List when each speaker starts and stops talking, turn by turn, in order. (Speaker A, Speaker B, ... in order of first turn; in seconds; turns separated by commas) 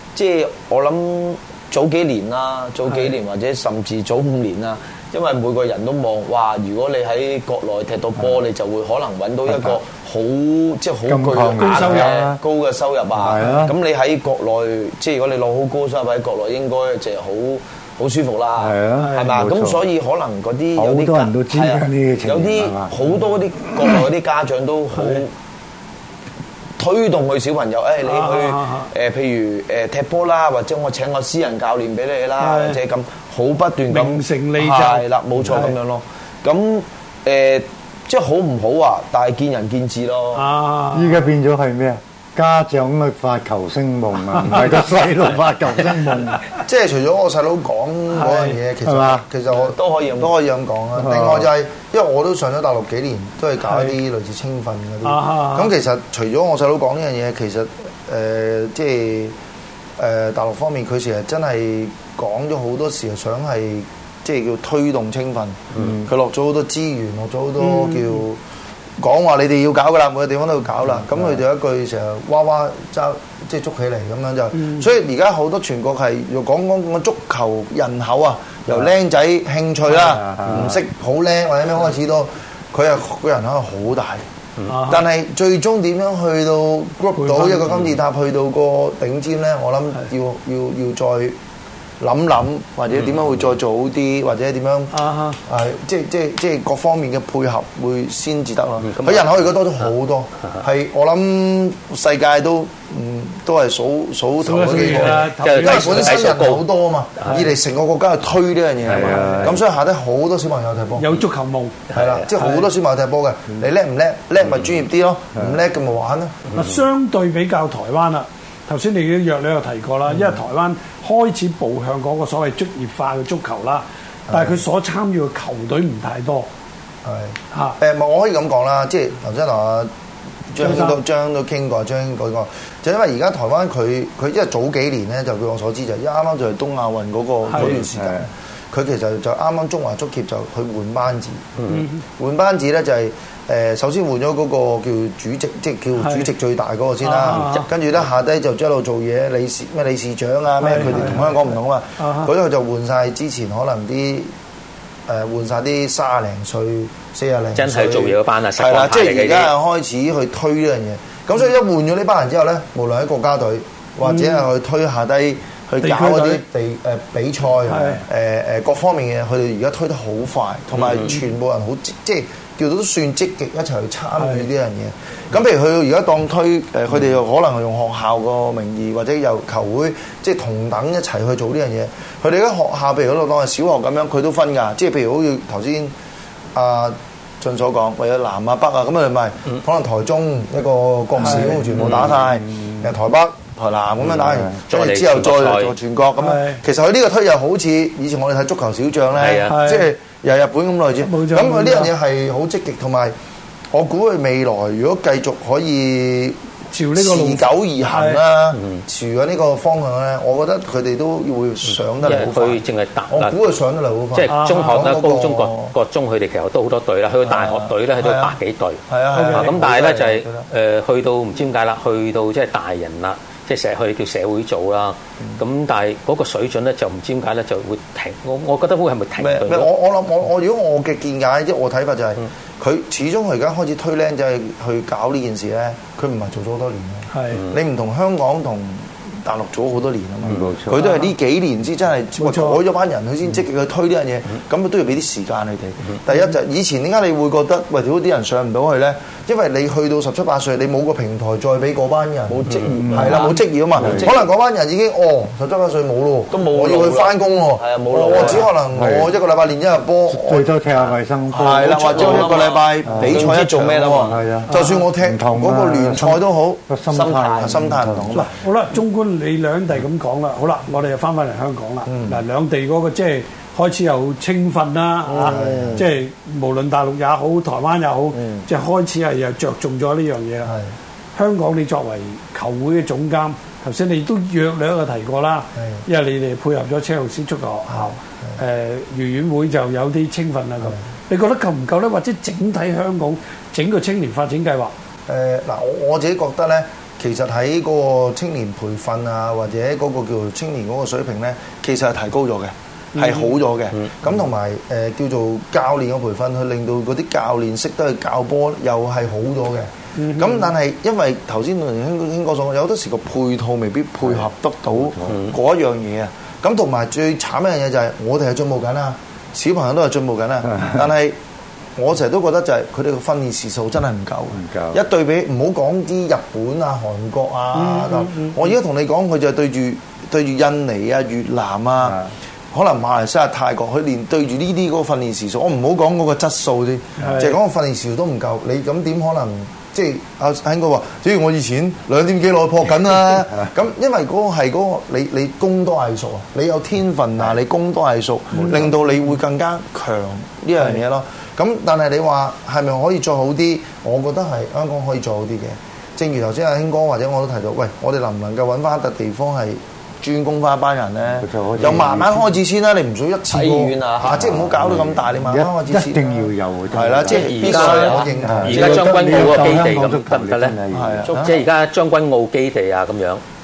Speaker A: 0.1-25.3, Speaker B: 9.5-9.8, Speaker B: 11.1-12.4, Speaker C: 11.6-12.2, Speaker B: 13.2-13.8, Speaker B: 18.6-19.8, Speaker C: 19.0-19.3, Speaker B: 20.8-23.1, Speaker C: 25.0-25.2, Speaker A: 26.8-40.5, Speaker C: 28.0-28.9, Speaker C: 32.4-32.8, Speaker C: 33.9-35.8, Speaker C: 40.3-41.2, Speaker B: 40.9-46.4, Speaker D: 46.6-59.3, Speaker C: 48.1-48.6, Speaker B: 48.9-49.2, Speaker A: 49.6-50.3, Speaker B: 51.0-51.5, Speaker C: 53.6-54.0, Speaker C: 55.0-55.7, Speaker D: 60.0-68.4, Speaker B: 65.8-66.1, Speaker C: 67.6-68.2, Speaker D: 69.0-84.2, Speaker C: 74.6-74.9, Speaker B: 79.9-80.8, Speaker E: 80.5-80.8, Speaker C: 84.7-85.1, Speaker D: 84.9-91.4, Speaker C: 87.2-87.8, Speaker D: 92.0-111.1, Speaker C: 94.9-95.4, Speaker E: 98.8-99.9, Speaker C: 104.4-106.4, Speaker E: 104.7-107.5, Speaker C: 107.3-107.6, Speaker B: 108.9-109.6, Speaker C: 111.0-112.7, Speaker D: 111.9-116.4, Speaker E: 111.9-112.3, Speaker C: 116.5-126.5, Speaker D: 127.0-129.9, Speaker C: 127.5-127.8, Speaker D: 130.5-141.5, Speaker C: 130.6-131.0, Speaker C: 137.5-137.8, Speaker B: 137.6-138.3, Speaker E: 141.6-141.9, Speaker C: 141.7-142.0, Speaker D: 142.2-154.3, Speaker C: 146.0-146.3, Speaker C: 147.0-147.7, Speaker E: 147.2-147.7, Speaker C: 150.6-151.3, Speaker C: 152.0-152.3, Speaker D: 155.1-185.9, Speaker E: 157.6-159.5, Speaker C: 164.0-164.5, Speaker C: 165.8-166.4, Speaker C: 167.7-168.1, Speaker E: 170.8-171.1, Speaker C: 174.2-174.5, Speaker D: 186.5-203.1, Speaker C: 191.2-191.8, Speaker E: 191.7-192.2, Speaker B: 192.3-192.8, Speaker E: 194.1-195.8, Speaker C: 196.2-196.6, Speaker E: 199.1-199.6, Speaker C: 199.5-199.9, Speaker C: 201.0-201.9, Speaker D: 203.7-206.4, Speaker C: 206.7-208.2, Speaker D: 206.9-215.7, Speaker E: 208.5-208.8, Speaker E: 211.7-213.4, Speaker E: 214.1-229.7, Speaker C: 214.3-214.9, Speaker D: 217.3-218.3, Speaker D: 218.9-220.5, Speaker C: 219.1-219.6, Speaker D: 229.2-260.6, Speaker C: 237.1-237.5, Speaker B: 240.2-240.8, Speaker C: 240.8-241.1, Speaker C: 242.2-242.6, Speaker A: 252.3-254.3, Speaker B: 252.8-254.1, Speaker A: 256.3-258.5, Speaker B: 258.2-259.1, Speaker B: 260.1-263.4, Speaker D: 261.3-266.6, Speaker A: 261.4-264.2, Speaker B: 264.0-268.2, Speaker C: 264.5-264.8, Speaker A: 266.9-267.7, Speaker D: 267.4-268.4, Speaker C: 268.1-280.5, Speaker D: 271.9-272.2, Speaker A: 275.1-275.8, Speaker D: 275.2-275.9, Speaker A: 278.2-278.5, Speaker C: 281.1-294.7, Speaker D: 287.7-288.4, Speaker D: 295.1-321.2, Speaker C: 302.9-303.4, Speaker C: 310.0-310.5, Speaker B: 314.1-315.1, Speaker E: 315.1-315.3, Speaker D: 321.8-332.0, Speaker B: 324.4-324.8, Speaker C: 327.5-328.5, Speaker B: 331.8-332.1, Speaker D: 332.5-369.7, Speaker C: 337.1-337.4, Speaker B: 348.3-348.8, Speaker B: 361.2-362.4, Speaker A: 363.3-364.2, Speaker B: 364.1-371.1, Speaker E: 367.1-370.6, Speaker A: 367.3-368.1, Speaker D: 370.7-371.4, Speaker A: 371.1-371.4, Speaker E: 371.1-373.2